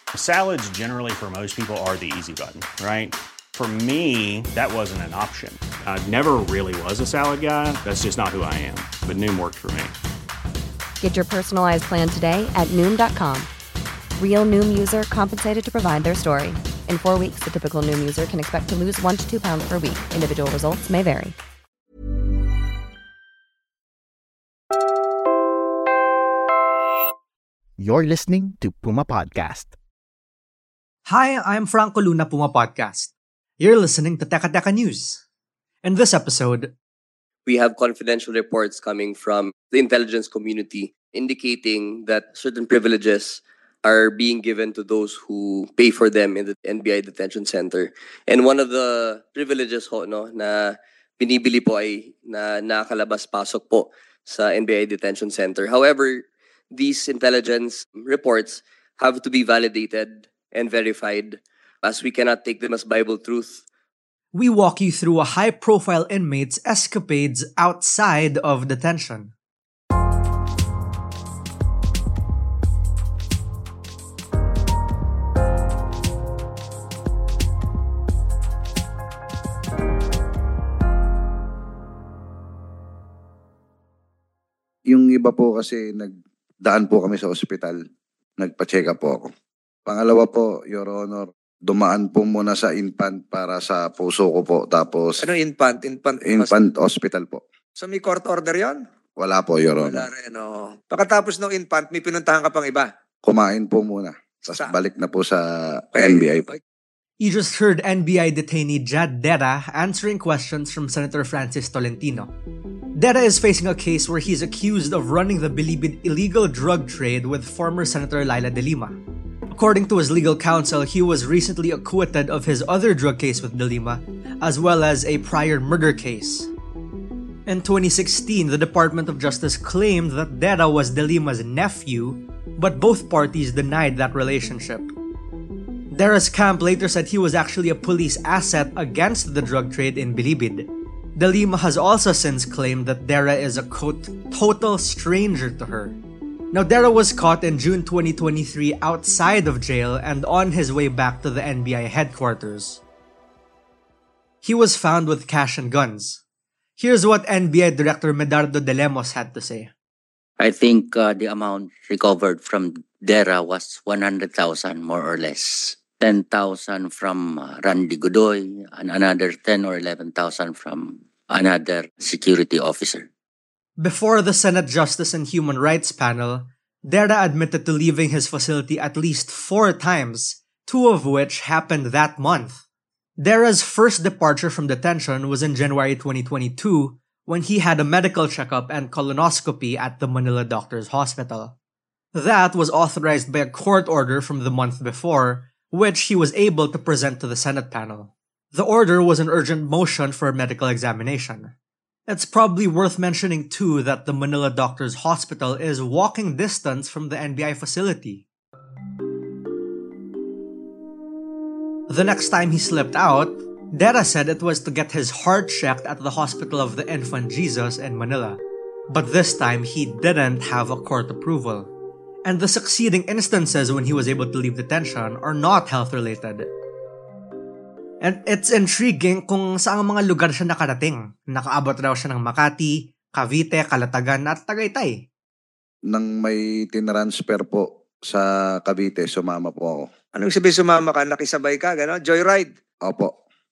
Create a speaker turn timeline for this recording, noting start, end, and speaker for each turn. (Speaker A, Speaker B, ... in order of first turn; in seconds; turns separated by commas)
Speaker A: 0.2-3.1, Speaker A: 3.6-6.0, Speaker A: 8.9-9.5, Speaker B: 11.0-13.5, Speaker B: 14.2-21.3, Speaker C: 27.8-29.7, Speaker D: 31.1-35.2, Speaker D: 35.8-36.7, Speaker E: 37.5-63.6, Speaker D: 64.3-69.3, Speaker F: 84.9-86.1, Speaker F: 86.6-87.8, Speaker F: 88.4-89.3, Speaker F: 89.9-95.2, Speaker G: 95.2-96.6, Speaker F: 96.2-97.4, Speaker G: 97.8-98.8, Speaker F: 99.2-100.1, Speaker G: 99.8-102.9, Speaker F: 103.2-106.5, Speaker G: 104.5-104.7, Speaker G: 105.9-106.6, Speaker D: 107.2-112.3, Speaker D: 112.9-119.0, Speaker D: 119.5-126.5, Speaker D: 127.5-134.9, Speaker D: 135.9-146.0, Speaker D: 146.5-152.8, Speaker D: 154.4-156.2, Speaker D: 156.8-159.7, Speaker H: 160.4-173.1, Speaker D: 173.8-182.6, Speaker D: 183.2-191.5, Speaker D: 192.1-201.5, Speaker D: 202.1-208.2, Speaker D: 211.9-221.7, Speaker D: 222.2-226.5, Speaker D: 228.0-235.0, Speaker F: 235.9-239.8, Speaker G: 240.1-242.5, Speaker F: 242.8-243.1